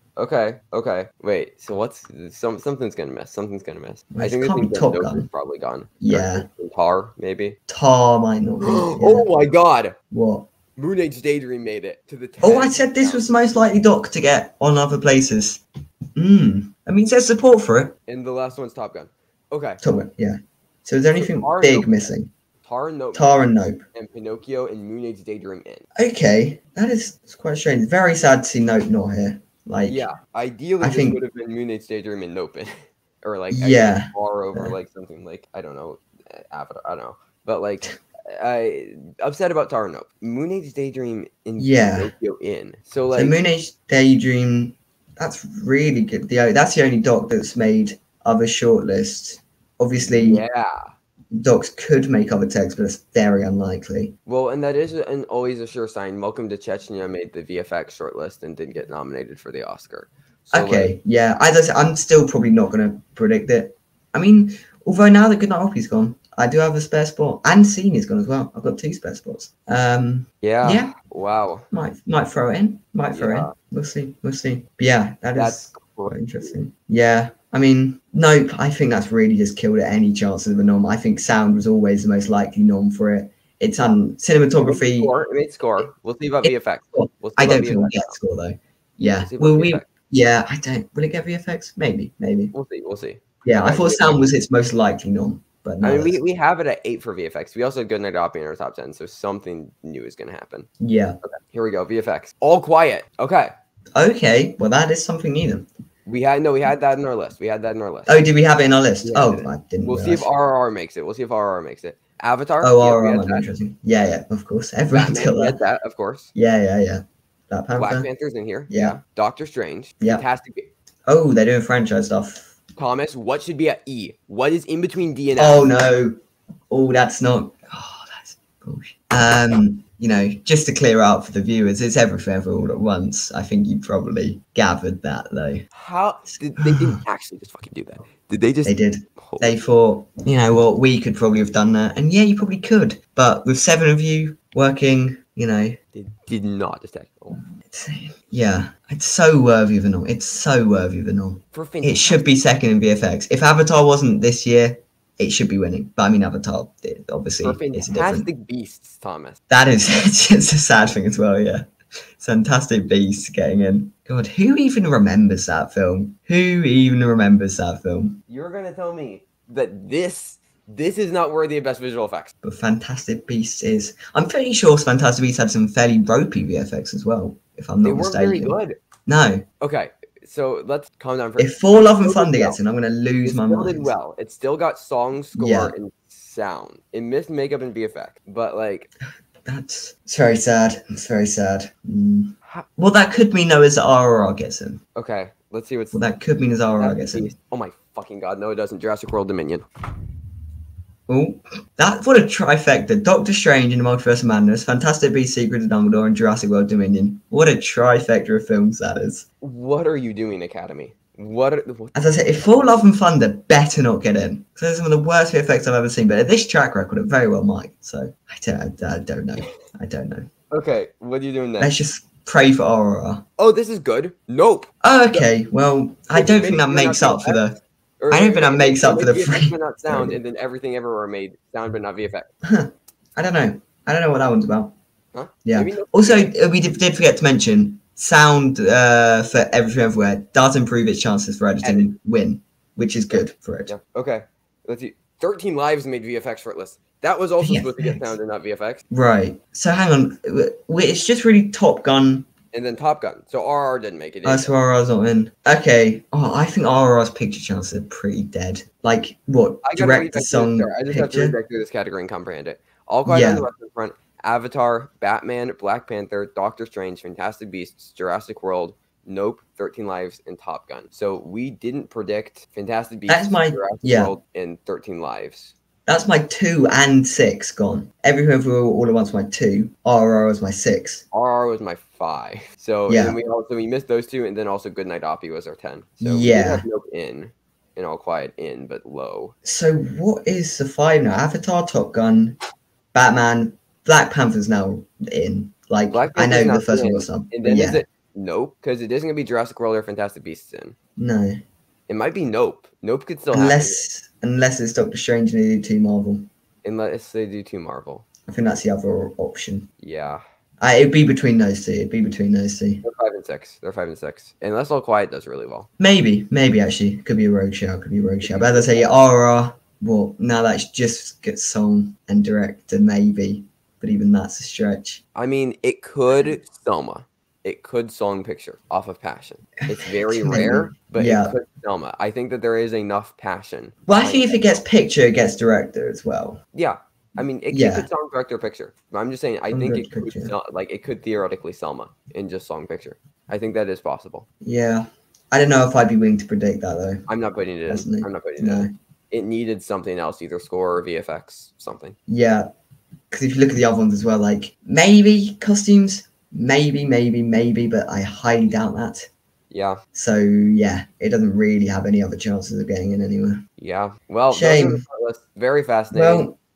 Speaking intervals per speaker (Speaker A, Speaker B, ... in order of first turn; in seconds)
Speaker A: 0.2-7.6, 8.6-9.9, 10.8-13.6, 18.1-19.8, 21.1-25.9, 29.9-43.4, 50.0-50.9, 54.2-60.9, 70.4-71.7, 73.1-73.5, 75.3-76.6, 84.6-88.2, 89.2-89.9, 92.5-94.3, 95.8-100.7, 101.2-103.5, 106.0-108.2, 109.0-113.5, 114.9-116.3, 117.8-120.7, 122.8-125.7, 135.7-139.6, 145.9-147.4, 151.5-152.3, 157.4-159.4, 168.3-172.3, 177.8-178.8, 179.6-182.6, 183.2-188.9, 194.9-196.0, 196.7-199.6, 209.4-212.9, 220.5-221.8, 223.4-225.3, 226.1-227.5, 228.0-232.3, 235.1-236.3, 241.6-241.9, 243.7-248.8, 252.5-254.6, 259.6-275.5, 281.1-289.3, 295.9-300.7, 301.9-303.8, 306.6-308.1, 309.8-310.2, 312.8-315.7, 318.2-318.9, 325.1-334.6, 336.5-344.2, 347.1-352.0, 359.5-359.8, 363.6-366.3
Speaker B: 4.1-5.3, 6.0-6.5, 7.7-9.3, 10.1-10.5, 12.4-15.6, 16.1-17.9, 19.8-22.3, 23.1-23.8, 26.0-30.0, 30.8-31.2, 33.5-34.7, 41.6-42.1, 43.1-50.4, 51.3-54.1, 60.5-70.9, 71.7-85.1, 86.4-92.5, 93.4-96.2, 100.8-101.2, 103.9-105.7, 108.1-110.3, 112.6-115.6, 116.3-118.1, 118.7-119.0, 121.1-122.5, 125.4-126.2, 126.7-135.7, 136.6-137.0, 138.6-145.8, 147.6-158.3, 159.5-161.7, 162.2-168.2, 172.4-179.4, 181.4-183.9, 185.3-185.7, 189.4-194.8, 195.9-197.3, 201.1-209.2, 211.9-220.3, 221.6-223.2, 224.8-227.6, 228.1-230.2, 232.4-234.7, 235.4-243.7, 247.4-248.1, 248.9-252.3, 254.2-261.4, 263.1-263.4, 273.1-274.1, 275.9-281.0, 282.9-283.1, 286.0-286.6, 289.4-292.4, 292.9-297.8, 301.0-301.4, 303.3-306.3, 308.3-309.7, 310.6-312.8, 315.8-325.0, 329.6-331.3, 333.9-336.4, 337.5-337.9, 339.5-340.3, 344.4-347.0, 347.7-348.7, 352.1-352.5, 353.1-359.1, 359.9-363.4, 364.3-364.8, 365.9-366.4